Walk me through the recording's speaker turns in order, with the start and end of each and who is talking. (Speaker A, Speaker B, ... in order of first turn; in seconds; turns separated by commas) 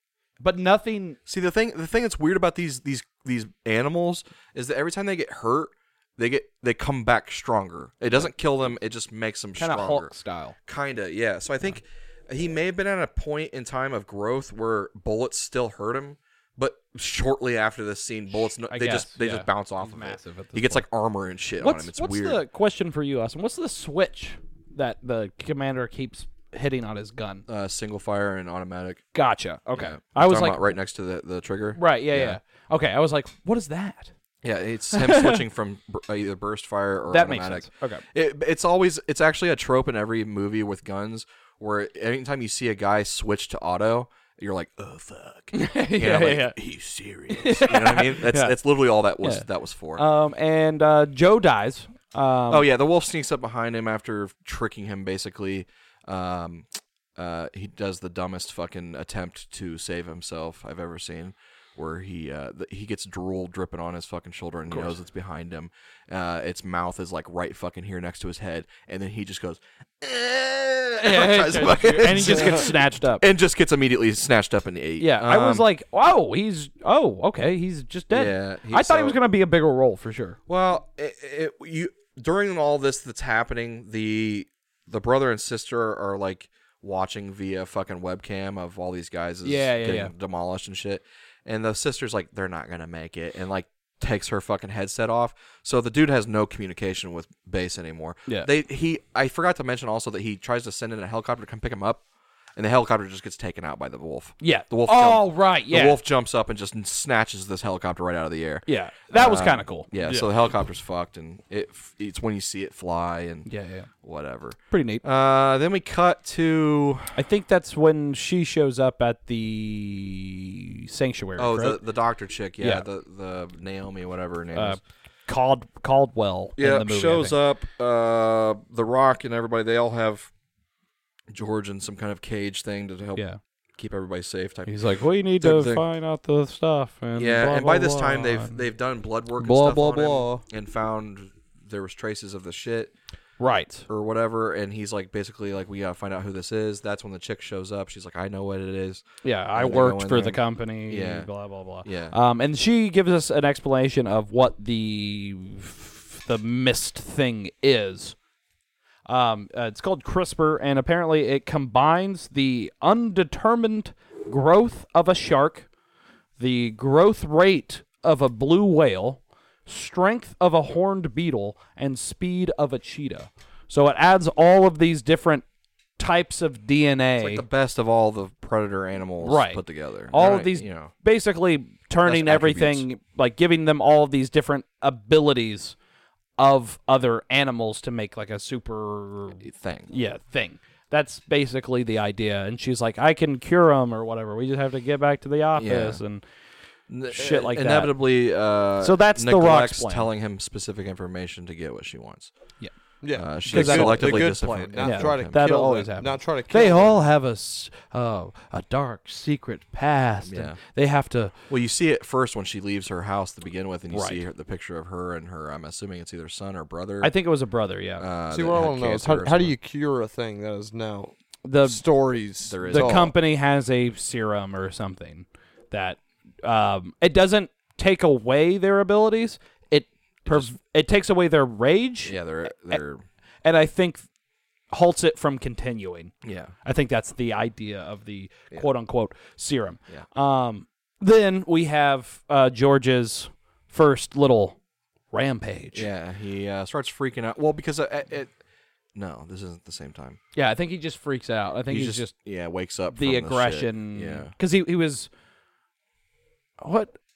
Speaker A: 0.4-1.2, Speaker B: 1.3-10.1, Speaker A: 9.6-10.6, Speaker B: 10.7-22.4, Speaker A: 18.7-20.8, Speaker A: 21.6-27.4, Speaker B: 27.5-29.0, Speaker A: 29.1-30.6, Speaker B: 29.8-32.4, Speaker A: 31.8-34.1, Speaker B: 34.4-50.0, Speaker A: 34.9-35.4, Speaker A: 37.1-38.0, Speaker A: 45.5-46.5, Speaker A: 47.3-48.6, Speaker A: 49.2-52.7, Speaker B: 52.5-75.7, Speaker A: 71.0-73.2, Speaker C: 72.3-72.6, Speaker A: 75.0-80.4, Speaker B: 78.1-79.2, Speaker B: 80.5-102.0, Speaker A: 89.4-90.1, Speaker B: 102.6-113.5, Speaker A: 104.4-106.0, Speaker A: 108.7-109.9, Speaker C: 110.0-110.3, Speaker A: 113.5-113.9, Speaker B: 114.0-117.2, Speaker A: 114.7-115.0, Speaker A: 117.2-121.8, Speaker B: 121.4-124.8, Speaker A: 122.6-122.8, Speaker A: 124.5-127.3, Speaker B: 126.6-130.3, Speaker B: 131.3-133.2, Speaker B: 133.8-134.8, Speaker A: 134.7-138.6, Speaker B: 135.4-135.8, Speaker B: 137.2-142.9, Speaker C: 139.4-140.4, Speaker A: 143.4-143.9, Speaker B: 143.9-149.0, Speaker A: 149.2-158.2, Speaker B: 149.6-151.3, Speaker B: 151.8-152.2, Speaker A: 159.1-165.7, Speaker A: 166.4-175.4, Speaker A: 176.0-177.4, Speaker B: 177.2-180.9, Speaker A: 179.2-185.8, Speaker B: 182.1-182.8, Speaker A: 186.4-196.2, Speaker B: 189.4-189.9, Speaker B: 195.6-196.0, Speaker B: 196.9-202.3, Speaker A: 197.1-197.9, Speaker A: 198.8-200.1, Speaker C: 203.0-207.1, Speaker B: 203.1-205.4, Speaker A: 203.5-211.3, Speaker B: 210.2-210.6, Speaker B: 211.5-217.1, Speaker A: 213.9-214.2, Speaker A: 217.0-218.1, Speaker B: 218.0-219.6, Speaker C: 218.3-223.1, Speaker A: 221.4-221.8, Speaker B: 222.5-223.1, Speaker A: 222.6-232.8, Speaker B: 230.3-230.5, Speaker B: 232.0-233.0, Speaker A: 233.4-234.1, Speaker A: 234.7-236.1, Speaker B: 236.2-236.5, Speaker A: 236.7-244.6, Speaker A: 245.1-245.9, Speaker B: 245.7-248.3, Speaker B: 248.9-250.2, Speaker A: 250.3-252.1, Speaker B: 251.7-254.3, Speaker A: 252.9-255.1, Speaker A: 256.6-257.0